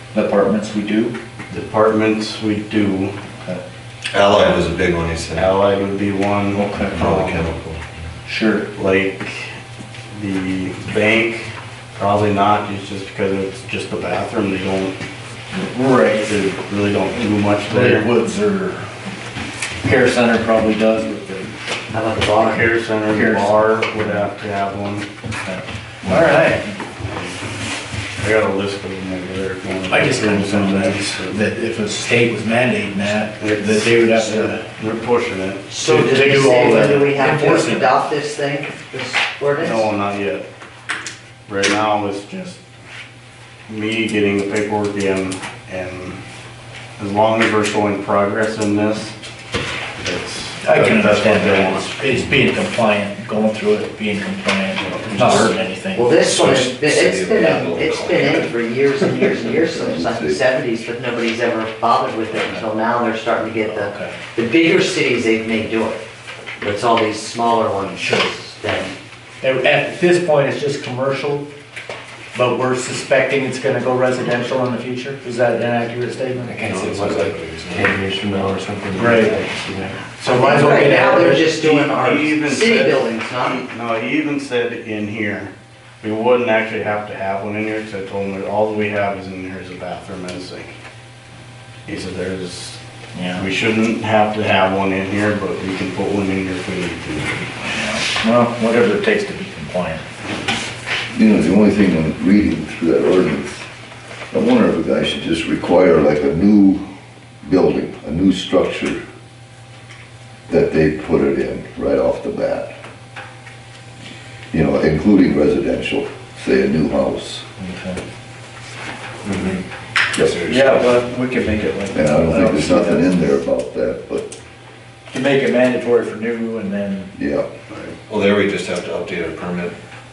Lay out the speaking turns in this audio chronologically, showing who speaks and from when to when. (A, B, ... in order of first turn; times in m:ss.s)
0:00.1-0:01.2 A
0:01.5-0:03.2 B
0:04.1-0:05.5 C
0:05.4-0:07.5 B
0:06.5-0:07.0 A
0:07.0-0:07.8 C
0:08.3-0:08.7 A
0:08.8-0:09.6 B
0:10.1-0:15.0 B
0:15.5-0:16.4 A
0:16.2-0:18.1 B
0:17.7-0:18.9 A
0:19.8-0:21.5 A
0:21.9-0:22.7 D
0:22.3-0:25.1 B
0:23.1-0:23.8 A
0:25.4-0:26.8 A
0:26.0-0:26.4 C
0:27.0-0:27.5 B
0:28.2-0:31.5 B
0:29.9-0:34.7 A
0:33.4-0:35.7 B
0:35.7-0:39.9 D
0:35.8-0:37.9 A
0:39.6-0:40.4 B
0:41.5-0:42.6 B
0:43.7-0:46.2 B
0:47.0-0:49.2 B
0:50.0-0:52.0 B
0:50.6-0:56.2 A
0:54.8-0:55.5 B
0:55.1-0:55.4 C
0:56.0-1:06.0 D
0:56.2-0:59.6 C
0:59.8-1:00.4 E
1:03.7-1:04.1 A
1:06.6-1:09.0 D
1:08.0-1:08.3 A
1:09.4-1:11.5 A
1:12.3-1:16.6 A
1:16.4-1:20.0 F
1:16.6-1:18.1 C
1:19.0-1:21.5 A
1:20.3-1:23.6 D
1:21.6-1:30.8 B
1:31.9-1:32.8 B
1:33.2-1:33.5 A
1:33.4-1:37.5 B
1:37.6-1:40.0 A
1:41.1-1:43.6 E
1:44.3-1:46.8 E
1:47.4-1:49.0 E
1:50.5-1:52.7 E
1:54.5-1:57.4 E
1:57.6-1:58.0 A
1:59.2-1:59.6 C
2:00.2-2:01.1 C
2:00.5-2:03.1 A
2:01.9-2:04.3 E
2:05.1-2:07.1 A
2:07.2-2:07.5 E
2:07.7-2:08.0 B
2:08.1-2:09.8 C